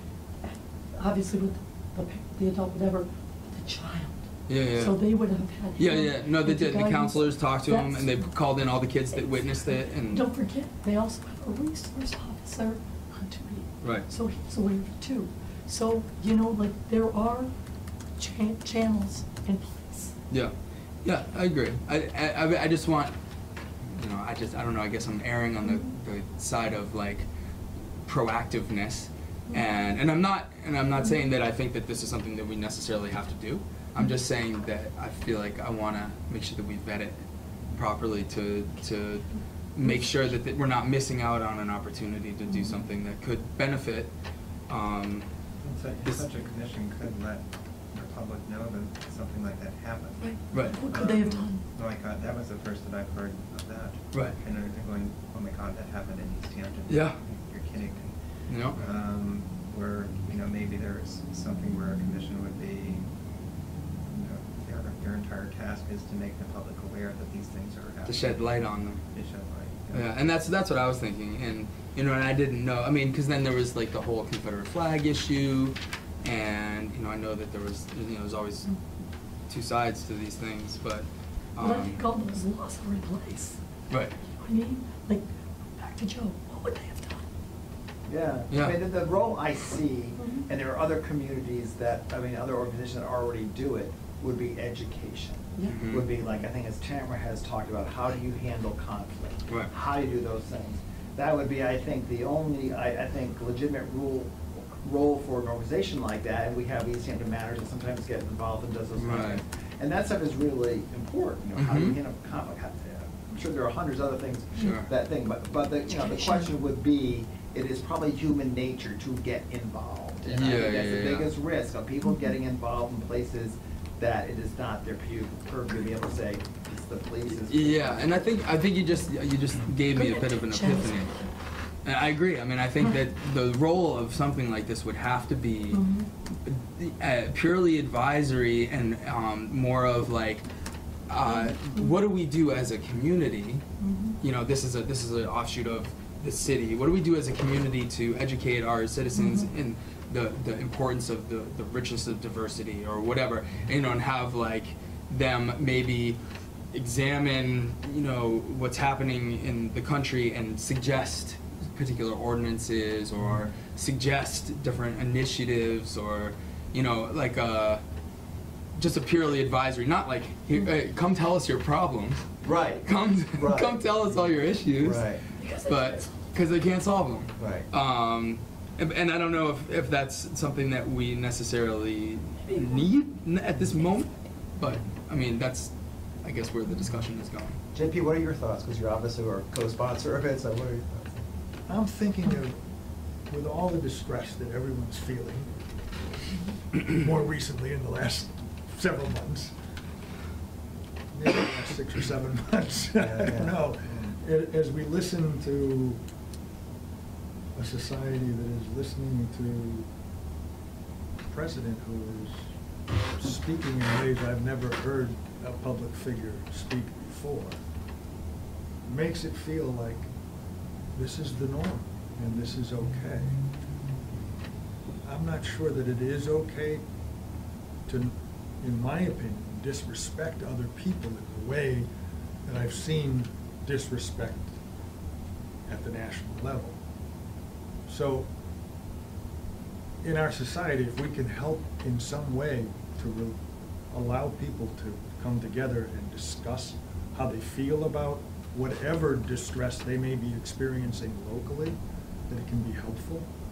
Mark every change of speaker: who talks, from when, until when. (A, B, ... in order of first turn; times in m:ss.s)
0:00.4-0:08.3 A
0:04.5-0:05.0 B
0:05.8-0:10.3 B
0:10.0-0:17.5 A
0:13.8-0:14.1 B
0:18.2-0:20.2 A
0:20.3-0:23.1 B
0:23.8-0:27.3 B
0:28.0-0:37.2 B
0:37.8-0:44.1 B
0:42.5-0:42.8 A
0:44.7-0:45.3 B
0:45.6-0:50.3 C
0:50.2-0:51.6 A
0:50.5-0:50.8 B
0:50.8-0:58.2 C
0:56.9-0:57.2 B
0:58.5-0:58.8 B
0:58.7-1:03.1 C
1:04.0-1:08.2 C
1:08.0-1:09.0 B
1:09.1-1:10.1 C
1:09.9-1:18.7 B
1:19.5-1:22.0 B
1:21.6-1:23.6 A
1:23.9-1:24.1 B
1:24.3-1:27.2 A
1:28.1-2:08.3 D
1:28.5-1:28.8 B
1:30.2-1:30.4 A
1:35.6-1:35.8 A
1:35.7-1:36.1 B
1:49.0-1:49.4 B
1:51.6-1:52.0 B
1:54.6-1:54.9 B
1:55.9-1:56.5 A
2:00.3-2:01.3 B
2:07.3-2:11.1 B
2:09.9-2:11.3 A
2:11.8-2:20.4 B
2:15.7-2:16.1 A
2:21.1-2:23.6 B
2:21.2-2:21.9 A
2:23.8-2:24.2 A
2:24.2-2:36.2 B
2:29.1-2:29.5 A
2:36.7-2:47.8 B
2:48.8-2:52.3 B
2:52.4-2:55.2 D
2:52.8-2:55.1 B
2:55.4-2:56.3 A
2:55.6-3:07.6 B
2:57.4-2:57.7 D
3:07.7-3:11.2 D
3:11.7-3:12.6 E
3:13.3-3:15.5 E
3:16.7-3:19.5 E
3:21.1-3:26.0 E
3:23.0-3:24.1 D
3:27.6-3:29.9 E
3:31.3-3:32.5 E
3:33.2-3:37.6 E
3:38.8-3:40.1 E
3:40.9-3:43.4 E
3:45.0-3:46.8 E
3:47.9-3:51.9 E
3:52.5-3:54.6 E
3:55.7-3:56.8 E
3:57.9-3:58.3 E
4:00.0-4:03.4 E
4:03.9-4:11.8 E
4:12.3-4:13.3 E